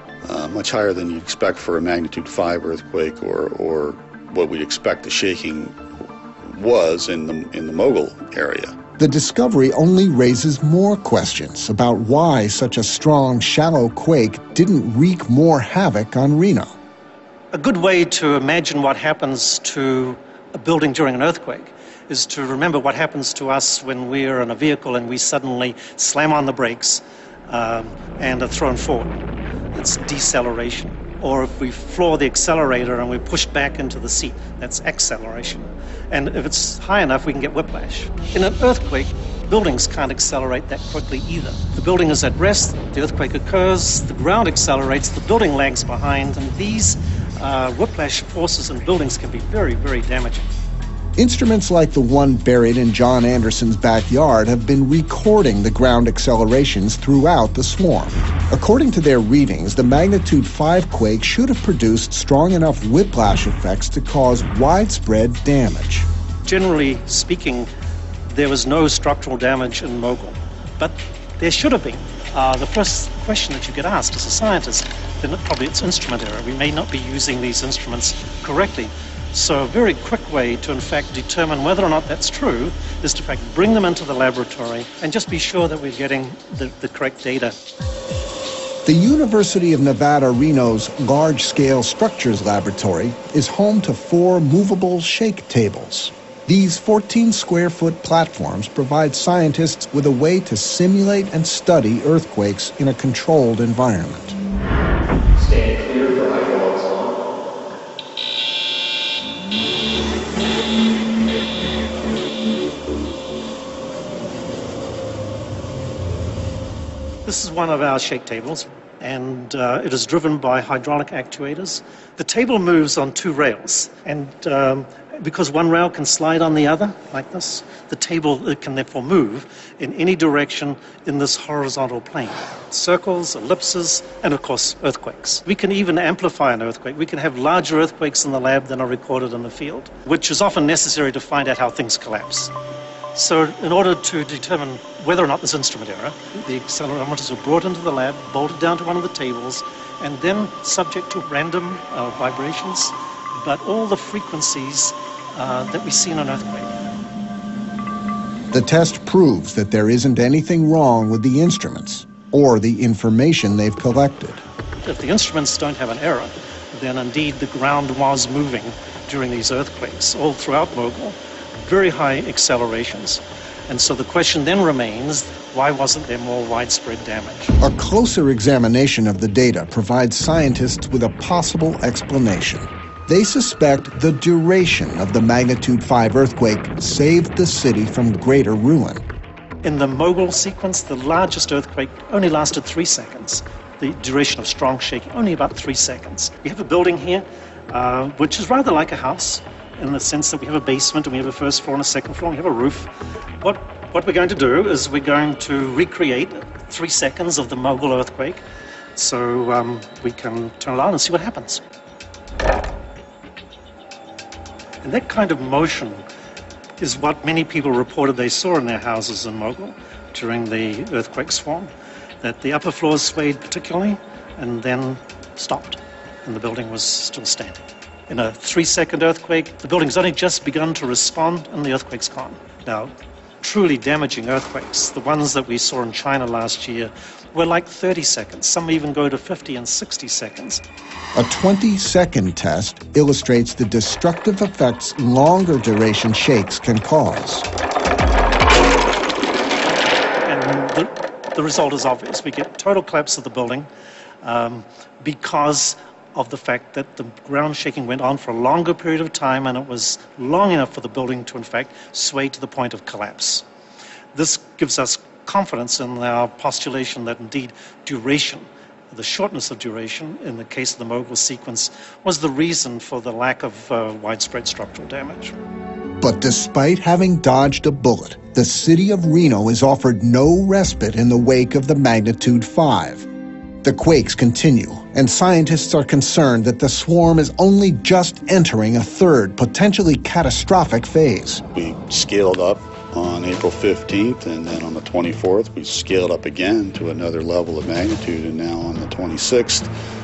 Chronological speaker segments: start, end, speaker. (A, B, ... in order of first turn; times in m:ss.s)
0:00.2-0:05.8 A
0:06.5-0:08.7 A
0:09.0-0:16.7 B
0:17.5-0:29.1 C
0:29.7-0:50.5 C
0:51.2-1:06.1 B
1:06.4-1:07.7 C
1:08.3-1:27.5 C
1:28.8-1:44.3 B
1:57.2-2:22.5 C
2:23.1-2:36.7 C
2:38.5-2:44.4 B
2:44.8-2:57.5 C
2:57.6-3:09.0 B
3:09.6-3:22.9 C
3:23.4-3:28.4 C
3:29.0-3:31.6 C
3:34.8-3:36.0 C
3:36.8-3:41.7 C
3:42.2-4:00.6 C
4:01.1-4:07.4 B
4:10.2-4:13.7 C
4:14.2-4:23.4 C
4:24.1-4:35.3 C
4:36.0-4:43.0 B
4:43.6-4:51.4 B
4:51.5-4:59.7 A